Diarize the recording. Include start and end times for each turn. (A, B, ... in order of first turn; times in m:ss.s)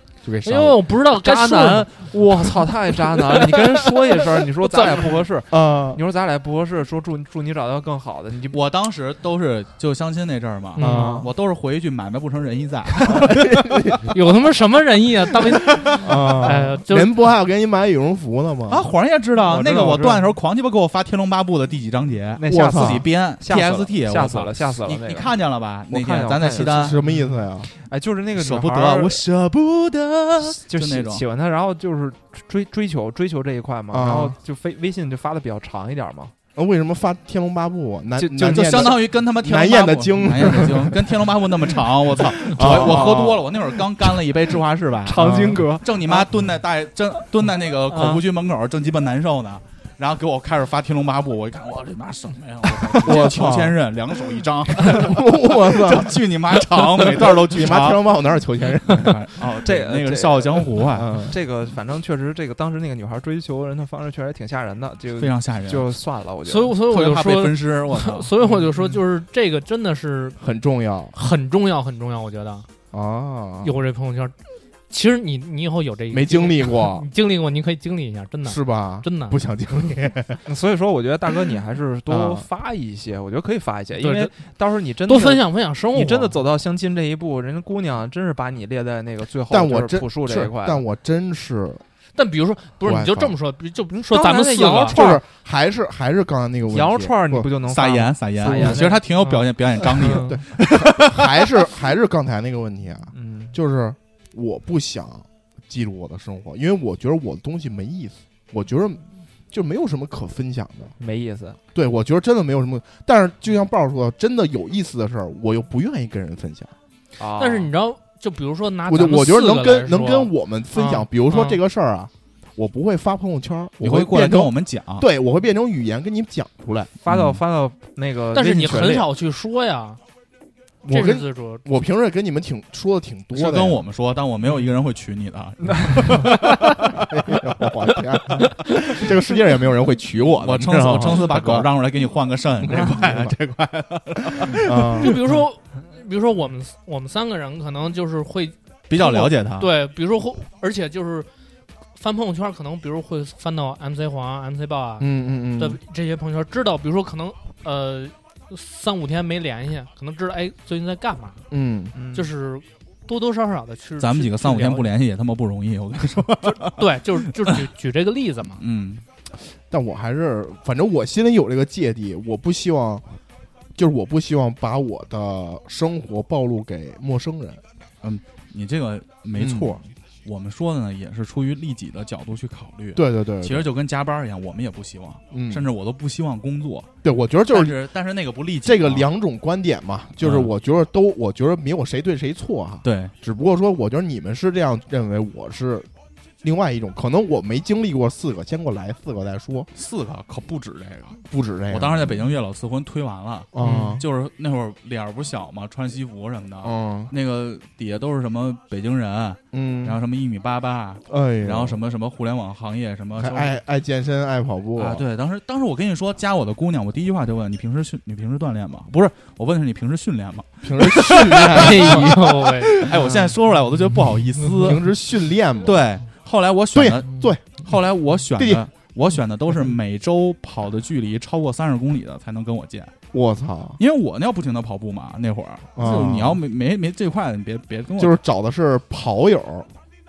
0:00.2-0:00.8 A
0:00.4-0:01.9 B
0:01.2-0:08.6 C
0:04.6-0:05.2 B
0:05.5-0:06.0 A
0:08.5-0:14.0 D
0:10.8-0:11.2 B
0:10.8-0:11.2 A
0:10.8-0:11.3 C
0:13.3-0:13.9 A
0:14.1-0:17.2 B
0:16.0-0:18.9 A
0:18.7-0:27.0 D
0:19.4-0:20.3 C
0:22.4-0:25.3 C
0:22.5-0:23.1 A
0:25.9-0:29.2 C
0:26.5-0:27.7 A
0:28.4-0:31.2 D
0:30.4-0:36.3 C
0:33.9-0:34.4 A
0:36.5-0:41.2 A
0:38.2-0:39.0 C
0:38.4-0:58.0 D
0:42.4-0:43.4 A
0:42.5-0:43.5 C
0:45.0-0:46.4 C
0:45.2-0:45.6 A
0:47.9-0:48.2 C
0:52.8-0:53.8 A
0:54.7-0:59.2 A
0:58.8-1:01.1 D
0:59.6-1:06.8 C
1:00.9-1:01.4 A
1:05.2-1:05.9 D
1:06.5-1:10.4 B
1:06.8-1:08.3 D
1:10.4-1:11.1 A
1:11.1-1:12.7 B
1:12.9-1:13.7 A
1:13.6-1:14.3 B
1:14.9-1:19.9 B
1:16.1-1:17.0 A
1:18.4-1:20.4 A
1:20.4-1:30.8 C
1:22.1-1:22.4 A
1:24.0-1:24.3 B
1:25.0-1:26.3 B
1:29.5-1:31.8 A
1:32.2-1:35.0 B
1:32.8-1:33.3 A
1:33.9-1:35.2 C
1:34.9-1:37.5 A
1:36.7-1:39.0 C
1:37.6-1:41.4 D
1:38.5-1:38.8 A
1:39.2-1:40.4 B
1:40.3-1:50.9 A
1:43.1-1:43.6 C
1:51.0-1:51.6 C
1:51.7-1:56.7 A
1:57.2-1:57.7 C
1:57.4-2:01.6 B
1:58.9-2:06.9 A
2:03.8-2:05.1 D
2:07.0-2:09.1 C
2:07.1-2:07.4 D
2:08.3-2:10.0 B
2:10.8-2:13.8 A
2:10.9-2:11.6 B
2:13.3-2:16.9 D
2:17.0-2:21.7 A
2:20.4-2:25.0 D
2:22.6-2:23.4 A
2:24.2-2:25.4 A
2:25.0-2:31.3 B
2:28.9-2:29.7 D
2:32.0-2:41.4 B
2:35.0-2:35.8 A
2:41.5-2:42.0 A
2:41.9-2:42.3 C
2:42.1-2:44.8 B
2:44.0-2:46.8 D
2:46.4-2:48.6 B
2:48.6-2:49.0 D
2:49.7-2:53.0 A
2:53.8-2:57.6 A
2:58.0-3:06.9 D
2:59.3-2:59.8 A
3:02.9-3:03.7 A
3:05.3-3:05.6 A
3:07.0-3:07.8 A
3:07.5-3:09.0 D
3:08.6-3:15.9 A
3:10.2-3:10.5 D
3:12.8-3:13.1 D
3:16.4-3:19.7 A
3:19.7-3:33.5 D
3:21.2-3:22.3 A
3:23.5-3:24.0 A
3:26.6-3:27.1 A
3:29.5-3:30.0 A
3:31.1-3:31.8 A
3:33.2-3:35.0 A
3:34.8-3:42.0 D
3:40.6-3:43.0 A
3:40.9-3:42.8 B
3:42.7-3:44.9 D
3:44.6-3:45.9 A
3:45.6-3:52.9 D
3:46.7-3:47.6 A
3:48.4-3:48.6 A
3:53.1-3:53.8 A
3:53.8-3:58.2 D
3:55.8-3:56.4 A
3:58.0-3:59.7 A